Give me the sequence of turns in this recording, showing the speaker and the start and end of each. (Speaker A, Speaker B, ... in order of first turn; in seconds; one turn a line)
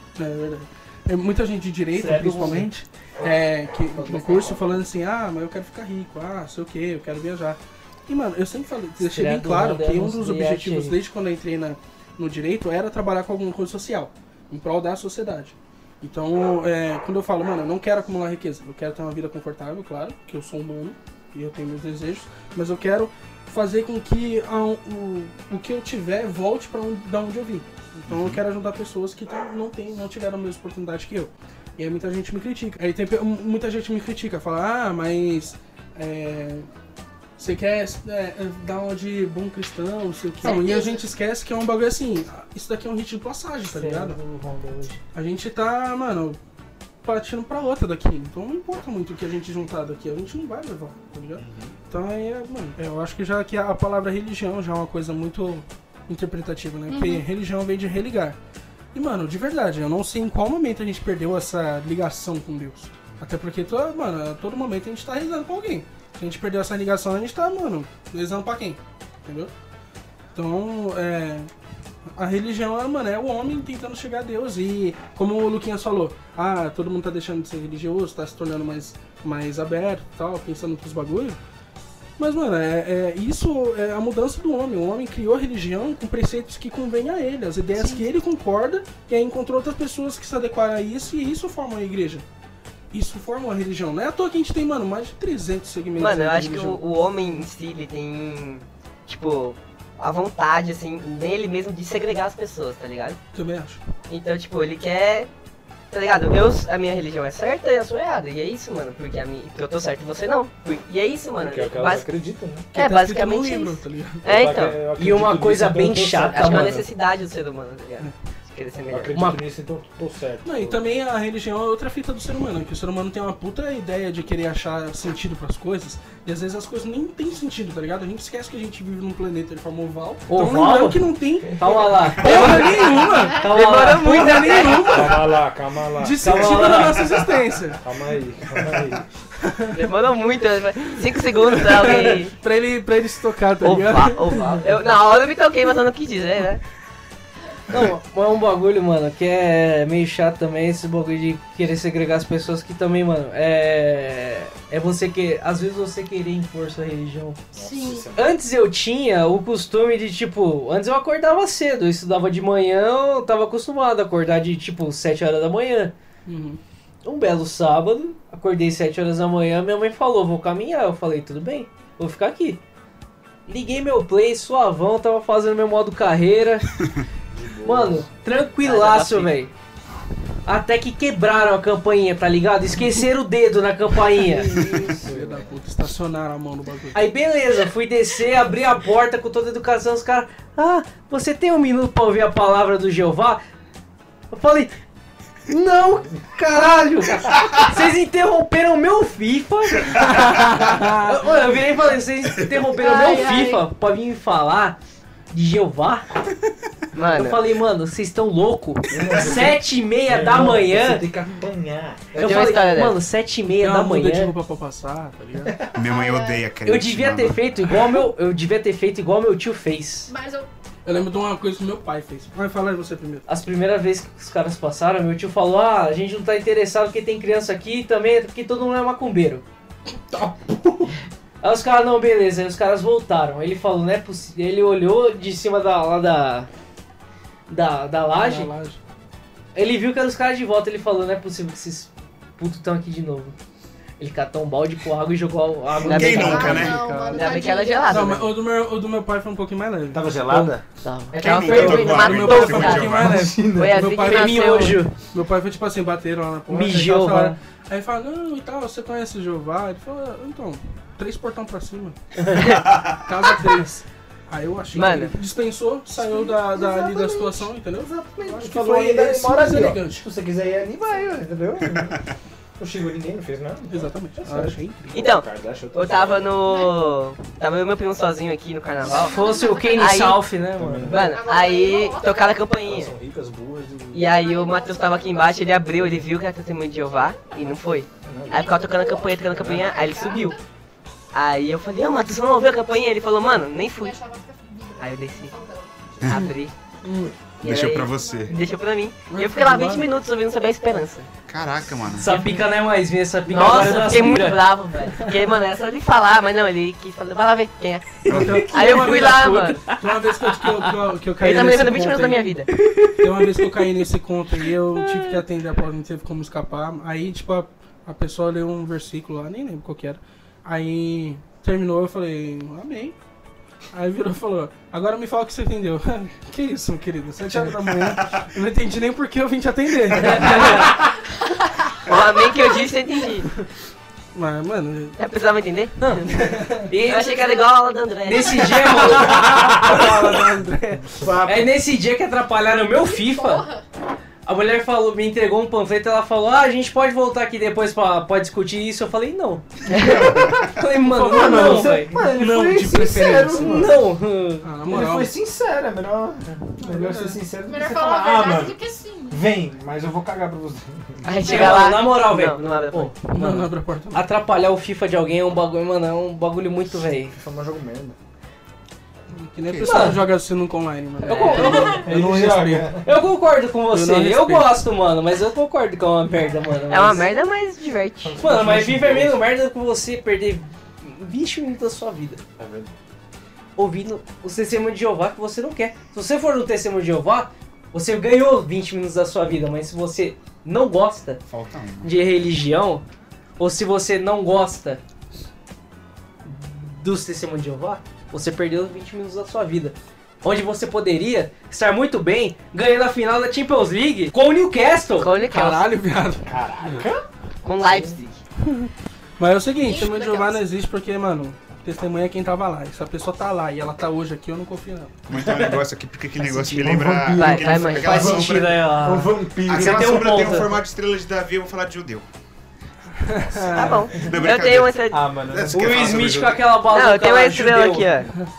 Speaker A: 0.1-36.7
Speaker B: 1.9-2.7
Speaker C: 3.9-4.8
Speaker B: 9.0-11.0
Speaker D: 28.1-28.4
Speaker A: 37.4-44.2
Speaker E: 40.4-40.8
Speaker F: 40.4-41.0
Speaker B: 43.7-45.0
Speaker A: 45.1-46.4
Speaker A: 47.0-58.4
Speaker D: 51.4-51.7
Speaker F: 56.9-57.2
Speaker A: 58.9-69.5
Speaker A: 70.3-71.5
Speaker A: 72.2-81.4
Speaker A: 82.2-92.2
Speaker F: 87.8-88.0
Speaker A: 92.9-96.8
Speaker E: 96.0-103.2
Speaker A: 103.3-103.8
Speaker E: 104.1-105.3
Speaker E: 105.9-112.1
Speaker C: 111.4-112.7
Speaker A: 112.7-114.2
Speaker E: 112.7-114.8
Speaker C: 114.2-116.8
Speaker B: 115.0-116.8
Speaker E: 116.3-119.2
Speaker C: 118.9-120.8
Speaker B: 119.1-119.4
Speaker A: 120.4-135.3
Speaker B: 130.3-131.0
Speaker B: 131.5-134.7
Speaker E: 132.2-135.1
Speaker F: 133.1-133.4
Speaker C: 134.8-136.7
Speaker A: 136.0-137.8
Speaker B: 136.2-137.1
Speaker C: 137.8-139.1
Speaker A: 139.4-139.9
Speaker E: 139.7-142.3
Speaker A: 141.1-144.4
Speaker E: 143.6-146.6
Speaker B: 147.7-157.4
Speaker C: 157.5-158.4
Speaker F: 157.6-158.1
Speaker B: 158.1-165.9
Speaker A: 166.2-166.6
Speaker B: 167.0-172.6
Speaker B: 173.5-176.7
Speaker C: 177.3-178.1
Speaker B: 177.6-179.5
Speaker E: 178.6-179.3
Speaker B: 180.4-184.5
Speaker C: 184.2-185.6
Speaker A: 184.3-187.0
Speaker B: 186.9-193.4
Speaker B: 194.3-194.8
Speaker B: 195.5-204.8
Speaker A: 200.0-201.2
Speaker F: 202.7-203.6
Speaker B: 205.3-206.1
Speaker E: 206.9-207.4
Speaker B: 207.1-211.1
Speaker C: 208.9-212.5
Speaker B: 212.1-214.3
Speaker E: 212.2-213.0
Speaker A: 213.6-215.6
Speaker D: 215.7-217.4
Speaker F: 215.8-216.4
Speaker B: 216.7-220.1
Speaker F: 220.1-221.3
Speaker A: 220.8-223.2
Speaker B: 223.3-229.4
Speaker C: 230.1-230.9
Speaker B: 231.4-236.5
Speaker B: 237.5-238.5
Speaker A: 238.1-238.8
Speaker B: 239.5-243.3
Speaker B: 244.0-246.6
Speaker A: 245.8-250.0
Speaker E: 245.8-248.3
Speaker D: 245.8-246.8
Speaker F: 246.2-248.2
Speaker C: 249.9-250.6
Speaker B: 250.3-252.8
Speaker E: 251.1-254.8
Speaker D: 251.1-253.2
Speaker A: 252.0-262.0
Speaker C: 252.9-253.9
Speaker B: 253.9-254.9
Speaker B: 256.5-257.4
Speaker E: 262.3-262.7
Speaker D: 262.5-263.1
Speaker A: 263.1-270.0
Speaker E: 264.7-265.1
Speaker C: 266.0-272.0
Speaker D: 271.6-272.0
Speaker C: 272.6-276.3
Speaker A: 273.7-275.1
Speaker E: 274.9-280.2
Speaker F: 276.4-276.8
Speaker F: 278.9-280.1
Speaker B: 278.9-280.9
Speaker C: 280.6-281.1
Speaker E: 280.9-282.9
Speaker F: 280.9-282.5
Speaker C: 282.6-284.1
Speaker E: 283.9-290.4
Speaker F: 284.0-285.6
Speaker C: 288.0-288.5
Speaker F: 288.3-290.4
Speaker C: 289.3-289.6
Speaker E: 291.1-293.9
Speaker F: 293.7-295.7
Speaker E: 294.8-295.3
Speaker E: 296.1-296.5
Speaker A: 296.1-297.1
Speaker E: 297.4-301.1
Speaker D: 297.4-298.3
Speaker F: 297.9-298.4
Speaker A: 299.1-299.9
Speaker D: 301.3-302.1
Speaker B: 301.9-304.5
Speaker E: 303.2-309.6
Speaker B: 308.0-310.7
Speaker D: 308.1-308.5
Speaker A: 308.1-312.2
Speaker E: 311.2-312.5
Speaker B: 312.5-313.5
Speaker A: 313.0-322.9
Speaker B: 314.8-315.2
Speaker A: 323.7-330.9
Speaker D: 327.6-328.3
Speaker B: 329.9-330.8
Speaker E: 330.1-330.6
Speaker E: 331.9-333.3
Speaker A: 334.1-335.0
Speaker E: 335.0-339.9
Speaker A: 336.1-336.7
Speaker B: 336.7-337.1
Speaker F: 337.0-337.4
Speaker B: 338.0-339.2
Speaker A: 338.6-341.0
Speaker C: 339.1-339.9
Speaker C: 340.9-341.5
Speaker B: 341.2-343.5
Speaker F: 342.8-343.6
Speaker B: 344.2-352.0
Speaker E: 349.7-350.1
Speaker C: 349.7-353.8
Speaker A: 350.8-353.8
Speaker B: 353.4-354.4
Speaker A: 354.4-355.1
Speaker C: 354.7-361.1
Speaker A: 356.6-357.2
Speaker F: 357.4-359.3
Speaker E: 361.0-362.9
Speaker F: 361.1-361.5
Speaker B: 361.2-367.1
Speaker A: 363.1-364.0
Speaker C: 367.1-368.0
Speaker A: 369.1-372.7
Speaker D: 369.4-369.9
Speaker B: 369.6-370.0
Speaker B: 371.0-372.2
Speaker F: 371.2-371.8
Speaker C: 371.7-372.9
Speaker B: 372.8-377.1
Speaker A: 373.7-374.6
Speaker E: 376.7-378.2
Speaker C: 378.0-379.2
Speaker B: 378.2-382.2
Speaker C: 382.4-382.7
Speaker B: 383.6-391.2
Speaker D: 391.3-392.0
Speaker B: 391.8-392.8
Speaker B: 393.4-394.8
Speaker B: 396.2-405.1
Speaker E: 405.0-405.6
Speaker A: 405.2-406.8
Speaker C: 406.2-407.1
Speaker E: 407.4-408.2
Speaker C: 407.6-408.0
Speaker A: 408.4-414.9
Speaker F: 409.6-410.4
Speaker D: 415.1-418.6
Speaker B: 416.2-416.6
Speaker C: 416.5-420.3
Speaker E: 417.1-418.1
Speaker B: 417.7-420.6
Speaker D: 419.5-422.1
Speaker A: 423.0-423.9
Speaker E: 423.5-425.0
Speaker D: 423.5-426.5
Speaker C: 424.9-426.2
Speaker B: 425.5-427.9
Speaker E: 426.6-428.1